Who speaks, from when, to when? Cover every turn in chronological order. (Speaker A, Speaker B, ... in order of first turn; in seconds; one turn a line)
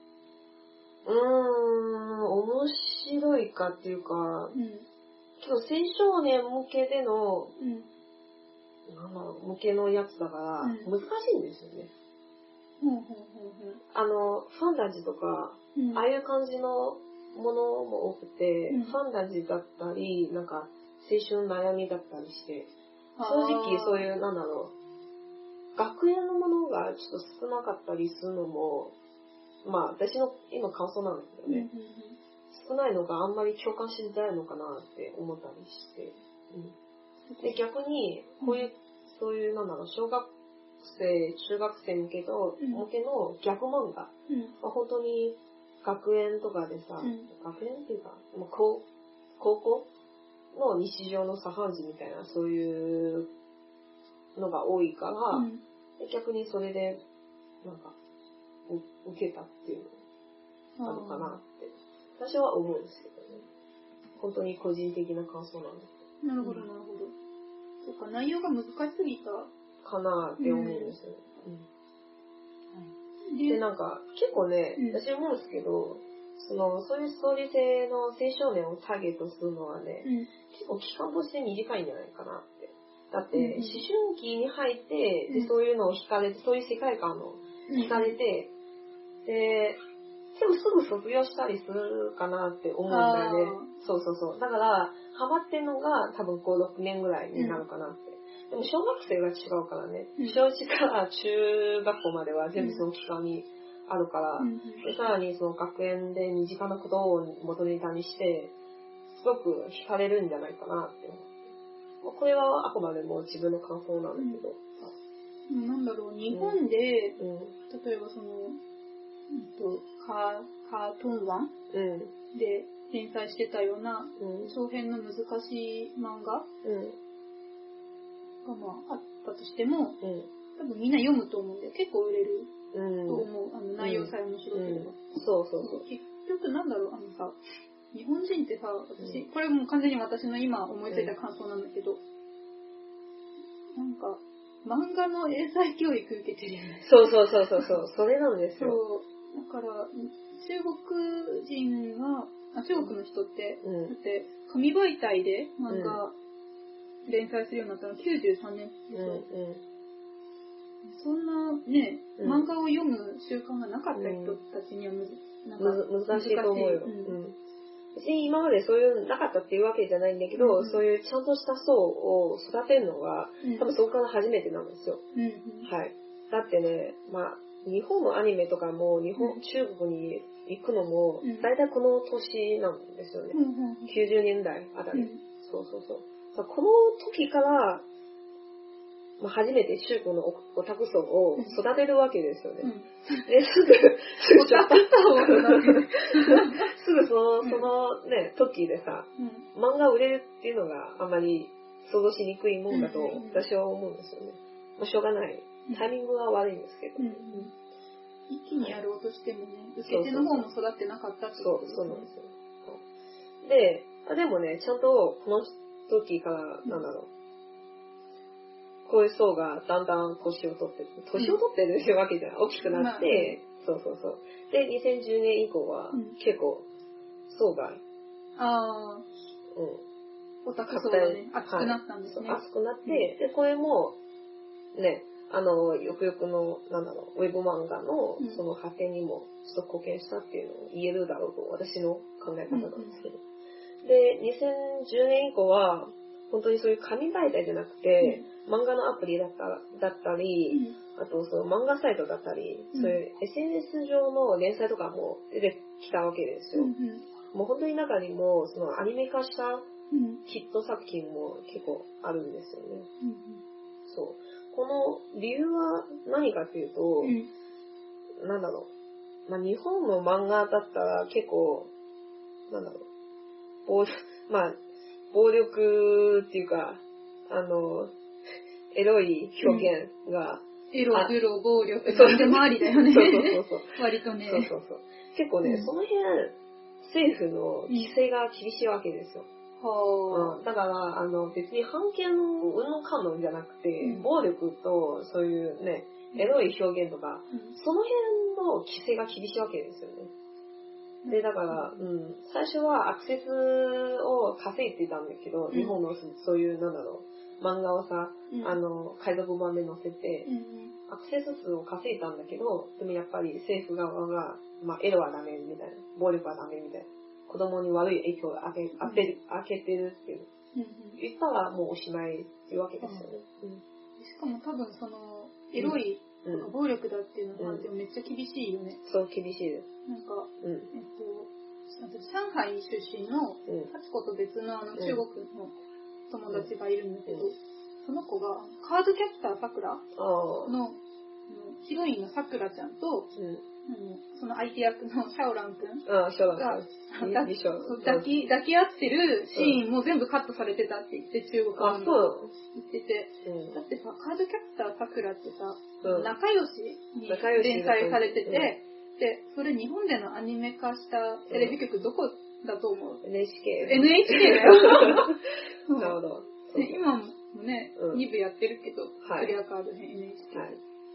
Speaker A: 1.0-4.5
Speaker B: 4.5-4.8
Speaker A: 5.4-7.5
Speaker B: 7.6-7.9
Speaker A: 8.9-11.9
Speaker B: 10.6-10.9
Speaker B: 12.8-13.8
Speaker A: 13.9-22.7
Speaker B: 15.7-16.0
Speaker B: 18.7-18.9
Speaker B: 23.2-24.1
Speaker A: 23.2-24.7
Speaker A: 25.7-28.9
Speaker A: 29.6-31.7
Speaker B: 31.4-32.2
Speaker A: 32.5-36.7
Speaker B: 37.3-37.6
Speaker A: 37.4-48.8
Speaker B: 38.4-38.7
Speaker B: 42.6-42.9
Speaker B: 44.3-44.5
Speaker B: 47.0-47.3
Speaker A: 49.4-49.9
Speaker A: 50.5-53.3
Speaker A: 54.4-57.0
Speaker B: 55.3-55.6
Speaker A: 57.6-57.9
Speaker A: 58.7-60.0
Speaker B: 60.8-61.4
Speaker A: 60.8-63.5
Speaker A: 64.2-66.7
Speaker B: 66.2-67.1
Speaker B: 67.8-69.5
Speaker A: 69.8-71.7
Speaker B: 70.4-70.9
Speaker B: 72.7-73.6
Speaker A: 73.5-88.5
Speaker B: 74.8-75.0
Speaker B: 80.0-80.3
Speaker B: 83.3-83.8
Speaker B: 87.7-88.2
Speaker A: 89.2-89.8
Speaker A: 90.3-108.5
Speaker B: 92.9-93.7
Speaker B: 97.3-97.6
Speaker B: 102.6-102.8
Speaker B: 104.4-104.8
Speaker A: 109.1-111.4
Speaker A: 112.0-114.9
Speaker B: 114.2-114.4
Speaker B: 115.5-118.6
Speaker A: 116.3-116.6
Speaker A: 117.2-117.5
Speaker B: 119.3-121.5
Speaker A: 121.7-122.1
Speaker B: 122.3-126.5
Speaker A: 124.2-124.5
Speaker A: 126.6-127.0
Speaker B: 128.4-130.0
Speaker A: 130.0-130.3
Speaker B: 130.6-132.5
Speaker A: 132.7-133.3
Speaker B: 133.1-135.0
Speaker A: 133.8-135.8
Speaker B: 135.6-137.4
Speaker B: 137.9-142.0
Speaker A: 140.9-141.1
Speaker B: 143.8-147.7
Speaker A: 146.8-148.8
Speaker B: 148.6-156.1
Speaker A: 153.6-153.9
Speaker A: 155.7-156.0
Speaker B: 157.0-159.2
Speaker A: 158.9-159.6
Speaker B: 160.8-167.2
Speaker A: 162.2-162.5
Speaker A: 163.9-164.4
Speaker A: 165.6-167.3
Speaker A: 167.9-175.0
Speaker B: 170.3-170.8
Speaker B: 173.4-173.7
Speaker B: 175.1-175.7
Speaker A: 175.6-183.4
Speaker B: 181.2-181.5
Speaker B: 183.3-184.0
Speaker A: 183.9-187.8
Speaker B: 184.9-185.2
Speaker A: 189.2-192.7
Speaker B: 192.6-193.2
Speaker A: 193.2-207.5
Speaker B: 194.3-196.7
Speaker B: 197.4-197.7
Speaker B: 199.2-199.5
Speaker B: 202.7-203.4
Speaker B: 207.0-207.5
Speaker B: 208.3-212.1
Speaker A: 209.8-210.5
Speaker A: 211.4-212.8
Speaker A: 213.4-217.1
Speaker A: 218.8-226.7
Speaker B: 221.1-221.4
Speaker B: 222.6-223.4
Speaker A: 227.3-227.8
Speaker B: 228.4-229.1
Speaker A: 229.5-229.8
Speaker B: 230.4-233.1
Speaker A: 230.7-233.9
Speaker A: 234.7-243.2
Speaker B: 242.5-242.9
Speaker A: 243.8-256.7
Speaker B: 248.0-248.3
Speaker B: 250.5-250.8
Speaker B: 256.5-257.0
Speaker A: 257.3-259.6
Speaker B: 259.9-260.2
Speaker A: 260.2-262.9
Speaker B: 263.0-263.4
Speaker A: 263.9-267.2
Speaker B: 267.0-267.3
Speaker A: 268.2-268.7
Speaker A: 269.3-271.7
Speaker A: 272.5-272.8
Speaker A: 273.6-274.6
Speaker A: 275.1-277.9
Speaker A: 278.7-281.1
Speaker B: 279.4-279.7
Speaker B: 280.7-284.5
Speaker A: 281.8-289.3
Speaker B: 285.4-285.7
Speaker B: 289.6-290.4
Speaker A: 290.1-300.1
Speaker B: 293.8-294.1
Speaker B: 297.3-297.6
Speaker B: 301.0-301.8
Speaker A: 301.1-310.3
Speaker B: 305.5-305.8
Speaker B: 308.3-308.6
Speaker B: 310.2-310.8
Speaker A: 310.9-320.3
Speaker B: 318.8-319.1
Speaker B: 320.5-321.0
Speaker A: 321.0-323.6
Speaker B: 322.8-323.1
Speaker B: 324.0-328.8
Speaker A: 325.6-326.5
Speaker A: 327.4-327.7
Speaker A: 328.8-329.7
Speaker B: 329.9-335.6
Speaker A: 330.4-330.7
Speaker A: 334.8-335.0
Speaker B: 336.1-339.8
Speaker A: 339.9-340.5
Speaker B: 340.4-343.1
Speaker A: 343.1-343.4
Speaker B: 343.6-363.0
Speaker A: 345.9-348.1
Speaker A: 349.3-349.6
Speaker A: 351.6-352.3
Speaker A: 353.2-353.6
Speaker A: 355.8-356.1
Speaker A: 357.1-358.5
Speaker A: 361.3-361.6
Speaker A: 363.0-365.2
Speaker B: 363.6-365.1
Speaker B: 365.7-366.0
Speaker A: 365.8-366.8
Speaker B: 366.5-370.6
Speaker A: 367.8-368.0
Speaker A: 369.0-369.3
Speaker A: 370.3-370.6